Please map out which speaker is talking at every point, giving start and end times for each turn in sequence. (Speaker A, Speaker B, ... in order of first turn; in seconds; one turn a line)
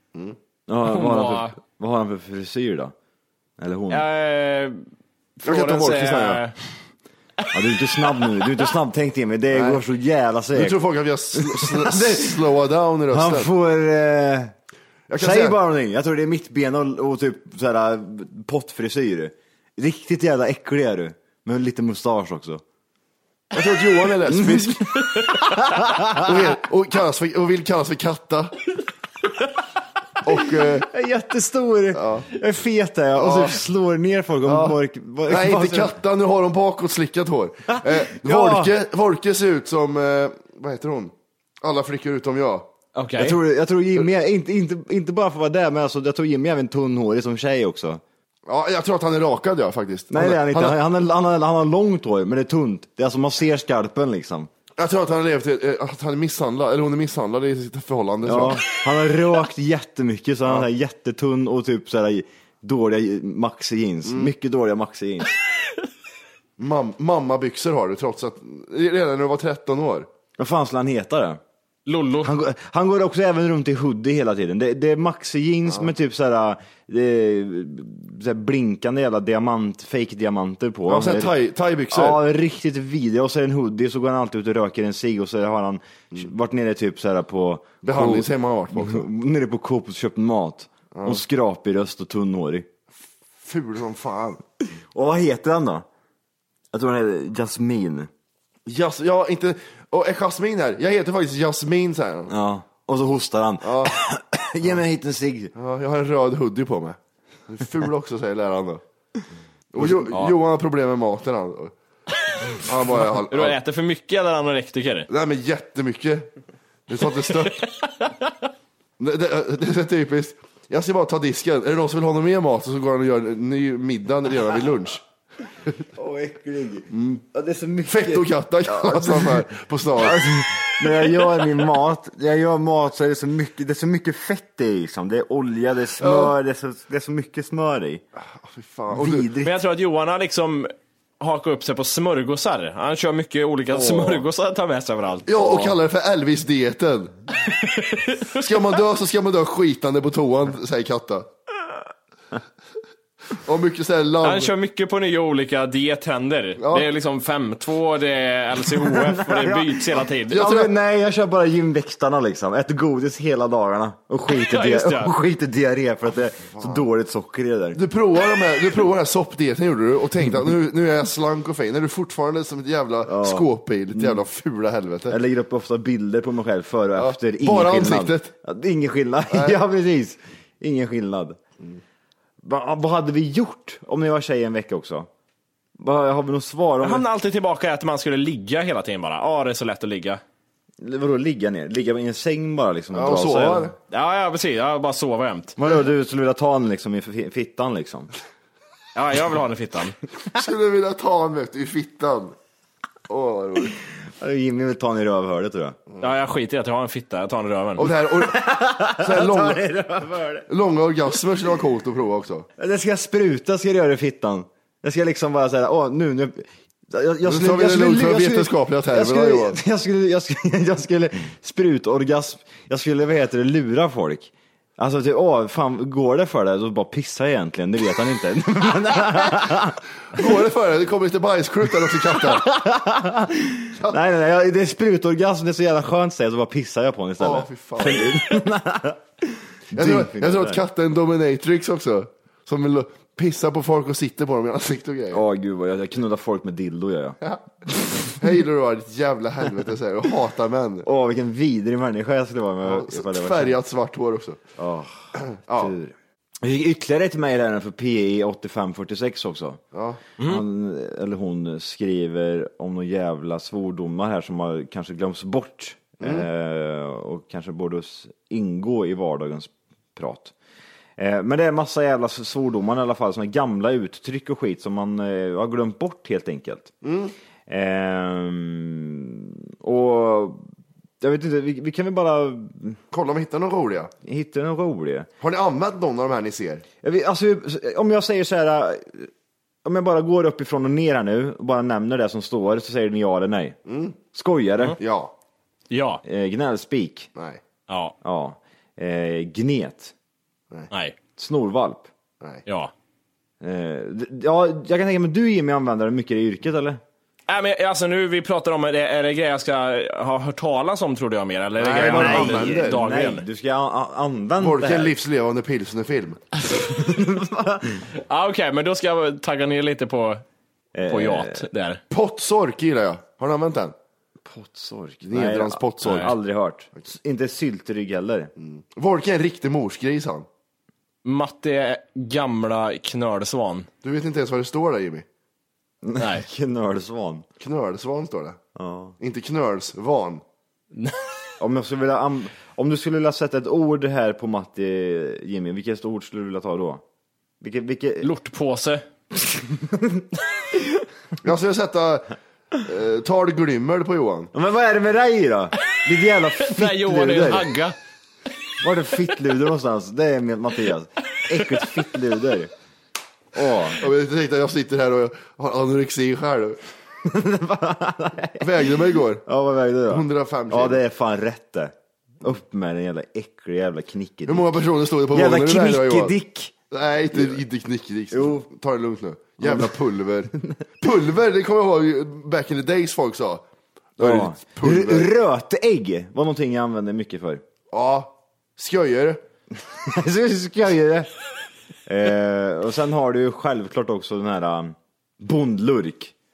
Speaker A: 0.7-2.9
Speaker B: 0.9-1.5
Speaker A: 3.6-4.0
Speaker B: 3.9-4.8
Speaker B: 5.4-6.5
Speaker C: 5.5-6.4
Speaker A: 7.5-10.8
Speaker C: 9.5-9.8
Speaker C: 10.5-13.5
Speaker A: 11.3-12.4
Speaker A: 13.1-14.6
Speaker C: 15.1-15.6
Speaker A: 15.2-22.6
Speaker C: 23.5-25.1
Speaker A: 24.4-26.3
Speaker C: 26.1-28.7
Speaker C: 30.2-30.9
Speaker A: 30.9-36.0
Speaker C: 31.9-32.3
Speaker C: 33.2-33.6
Speaker C: 34.5-42.7
Speaker A: 37.7-38.7
Speaker B: 43.0-43.4
Speaker A: 43.2-48.0
Speaker C: 48.5-50.8
Speaker A: 50.1-54.5
Speaker C: 54.8-58.6
Speaker A: 58.3-65.3
Speaker C: 64.1-64.3
Speaker C: 66.6-70.1
Speaker A: 70.4-71.4
Speaker B: 71.9-72.3
Speaker A: 72.2-81.3
Speaker C: 80.9-82.2
Speaker A: 81.9-92.7
Speaker C: 87.8-89.1
Speaker C: 90.9-91.2
Speaker C: 93.4-94.4
Speaker A: 94.9-95.9
Speaker A: 96.7-98.1
Speaker C: 98.7-102.3
Speaker A: 102.3-105.5
Speaker C: 103.6-103.9
Speaker C: 105.5-108.8
Speaker C: 109.7-111.7
Speaker A: 109.8-110.3
Speaker C: 112.6-113.6
Speaker B: 113.3-115.1
Speaker C: 115.1-116.3
Speaker C: 116.9-117.6
Speaker C: 119.0-125.0
Speaker A: 126.0-129.5
Speaker C: 126.9-127.2
Speaker C: 127.9-130.3
Speaker A: 130.0-138.0
Speaker C: 136.0-136.3
Speaker C: 138.2-139.3
Speaker A: 138.9-139.5
Speaker B: 139.4-145.7
Speaker A: 143.7-144.2
Speaker C: 145.3-147.1
Speaker B: 147.5-148.7
Speaker C: 148.4-151.3
Speaker C: 153.4-154.5
Speaker B: 154.2-160.4
Speaker C: 156.6-156.9
Speaker A: 158.9-167.8
Speaker C: 160.3-160.7
Speaker B: 164.3-165.1
Speaker C: 166.6-166.8
Speaker C: 167.8-175.2
Speaker A: 173.1-174.2
Speaker A: 175.1-181.4
Speaker C: 177.0-178.3
Speaker C: 179.3-179.6
Speaker A: 182.4-185.1
Speaker A: 185.8-187.0
Speaker B: 186.8-190.2
Speaker A: 190.8-193.7
Speaker C: 192.9-193.8
Speaker B: 193.9-195.6
Speaker A: 195.6-198.1
Speaker B: 198.9-199.9
Speaker C: 200.3-202.3
Speaker C: 203.1-203.8
Speaker A: 204.2-205.8
Speaker B: 206.0-207.9
Speaker C: 207.8-209.6
Speaker A: 208.2-210.5
Speaker C: 210.5-212.5
Speaker A: 212.6-230.2
Speaker C: 217.3-219.6
Speaker C: 230.1-232.5
Speaker A: 232.3-240.6
Speaker C: 237.2-238.2
Speaker C: 239.7-245.2
Speaker A: 245.1-247.2
Speaker C: 247.2-250.9
Speaker A: 250.8-253.6
Speaker C: 252.6-254.4
Speaker A: 254.6-259.6
Speaker C: 255.4-255.7
Speaker C: 259.7-260.0
Speaker A: 260.2-270.3
Speaker C: 266.0-266.3
Speaker A: 271.0-276.7
Speaker C: 276.8-277.1
Speaker A: 277.5-280.4
Speaker A: 281.0-282.8
Speaker C: 282.9-283.9
Speaker A: 284.1-285.1
Speaker C: 285.2-286.6
Speaker A: 286.8-289.1
Speaker A: 289.6-293.6
Speaker C: 293.7-294.0
Speaker A: 294.1-294.8
Speaker C: 294.8-295.1
Speaker B: 295.7-296.0
Speaker A: 296.1-297.1
Speaker B: 297.7-297.9
Speaker A: 298.0-299.9
Speaker A: 301.2-301.9
Speaker A: 303.4-306.8
Speaker B: 307.3-313.2
Speaker C: 311.6-312.8
Speaker A: 311.7-314.9
Speaker C: 314.4-316.2
Speaker A: 316.7-317.8
Speaker B: 318.1-320.2
Speaker A: 320.8-321.5
Speaker B: 320.9-321.8
Speaker C: 321.9-323.7
Speaker A: 324.2-328.3
Speaker C: 325.0-326.1
Speaker B: 325.9-326.1
Speaker C: 328.4-330.3
Speaker B: 331.1-333.7
Speaker C: 333.8-335.1
Speaker A: 335.8-337.2
Speaker B: 336.0-336.2
Speaker C: 337.4-338.4
Speaker A: 338.6-339.0
Speaker C: 339.0-340.2
Speaker B: 340.7-341.0
Speaker A: 341.4-346.8
Speaker A: 347.4-348.1
Speaker B: 348.0-348.8
Speaker A: 349.1-350.0
Speaker C: 351.2-354.3
Speaker A: 354.3-357.5
Speaker B: 356.4-357.7
Speaker A: 358.6-362.5
Speaker A: 363.3-363.8
Speaker C: 363.8-366.6
Speaker A: 367.1-368.4
Speaker C: 368.4-369.2
Speaker A: 369.2-374.6
Speaker C: 369.9-370.8
Speaker C: 374.3-376.2
Speaker A: 375.1-376.5
Speaker C: 376.7-383.4
Speaker A: 377.1-377.4
Speaker A: 378.1-378.5
Speaker A: 379.4-379.7
Speaker C: 384.0-385.1
Speaker A: 384.0-387.4
Speaker C: 387.7-389.2
Speaker A: 389.7-391.1
Speaker A: 391.9-396.1